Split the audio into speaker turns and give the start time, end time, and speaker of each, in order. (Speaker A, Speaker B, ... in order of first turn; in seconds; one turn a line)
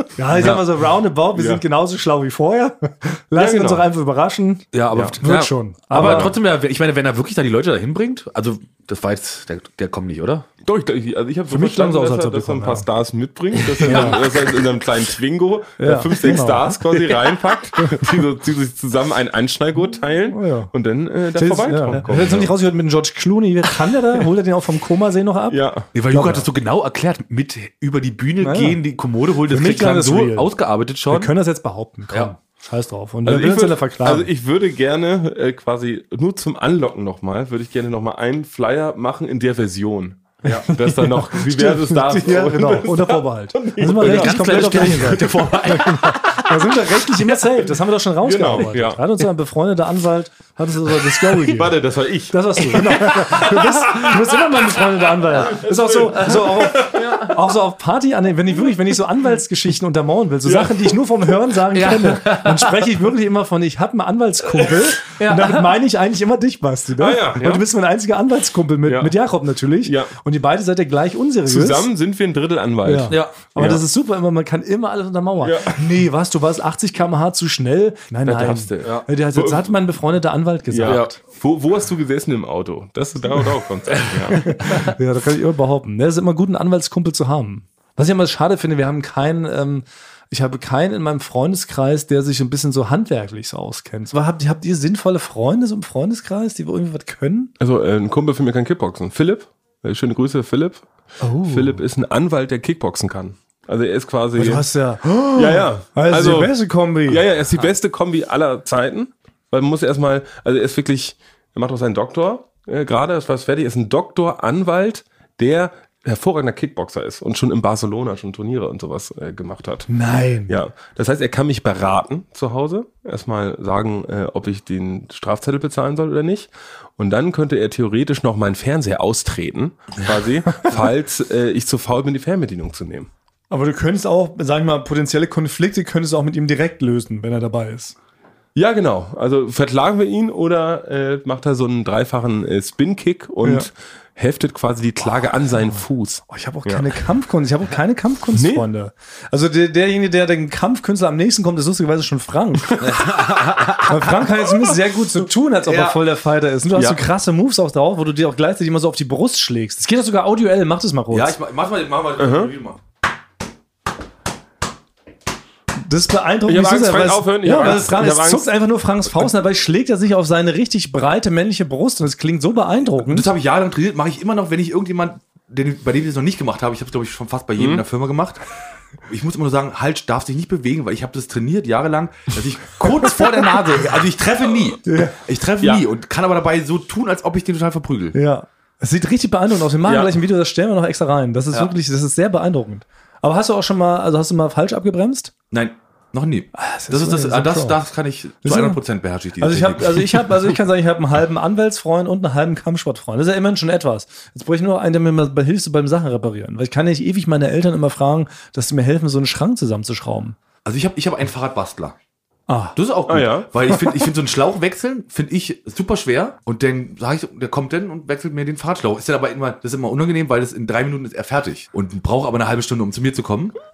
Speaker A: 0.1-6.3
Speaker B: 0.3-0.6
Speaker C: 1.3-1.6
Speaker C: 3.3-3.9
Speaker B: 4.7-10.5
Speaker C: 4.9-5.2
Speaker C: 5.9-6.3
Speaker C: 10.6-22.5
Speaker A: 11.5-12.8
Speaker B: 13.6-14.2
Speaker A: 13.8-14.2
Speaker A: 15.8-17.0
Speaker A: 20.3-20.7
Speaker A: 21.4-26.5
Speaker B: 21.9-22.5
Speaker C: 25.5-25.9
Speaker B: 25.9-31.3
Speaker A: 28.4-28.8
Speaker A: 29.4-30.5
Speaker A: 31.1-34.3
Speaker C: 33.2-45.6
Speaker A: 40.4-51.8
Speaker B: 44.0-46.5
Speaker C: 48.2-49.0
Speaker C: 51.1-54.2
Speaker A: 52.3-71.9
Speaker C: 55.3-57.2
Speaker B: 56.2-57.3
Speaker C: 60.4-61.0
Speaker B: 61.7-62.9
Speaker B: 65.0-65.7
Speaker C: 67.0-67.6
Speaker C: 68.8-69.1
Speaker C: 69.8-70.1
Speaker C: 71.5-73.8
Speaker A: 72.8-81.2
Speaker B: 73.1-73.3
Speaker C: 75.4-75.8
Speaker C: 78.2-79.7
Speaker B: 78.7-79.0
Speaker C: 80.7-84.5
Speaker B: 80.8-81.1
Speaker B: 83.9-84.9
Speaker A: 84.4-97.5
Speaker C: 97.6-100.9
Speaker A: 101.2-101.8
Speaker C: 101.4-104.7
Speaker A: 104.3-107.2
Speaker C: 105.3-106.5
Speaker C: 107.0-119.9
Speaker A: 119.9-120.5
Speaker C: 120.5-133.1
Speaker A: 133.5-137.9
Speaker C: 138.5-146.9
Speaker A: 143.4-143.7
Speaker A: 146.3-152.8
Speaker C: 148.3-148.6
Speaker B: 152.8-154.3
Speaker A: 153.9-161.4
Speaker B: 155.6-156.0
Speaker C: 156.7-157.0
Speaker B: 161.1-162.8
Speaker C: 162.2-162.5
Speaker A: 165.8-173.3
Speaker C: 166.4-168.5
Speaker B: 167.6-167.9
Speaker B: 172.9-178.4
Speaker C: 177.6-177.8
Speaker B: 179.0-188.2
Speaker A: 184.8-185.2
Speaker A: 188.1-195.3
Speaker C: 189.8-190.1
Speaker B: 195.5-200.2
Speaker A: 196.5-197.8
Speaker A: 198.4-198.8
Speaker A: 199.4-210.4
Speaker B: 210.6-211.9
Speaker A: 212.5-212.8
Speaker B: 212.7-223.5
Speaker C: 213.1-213.5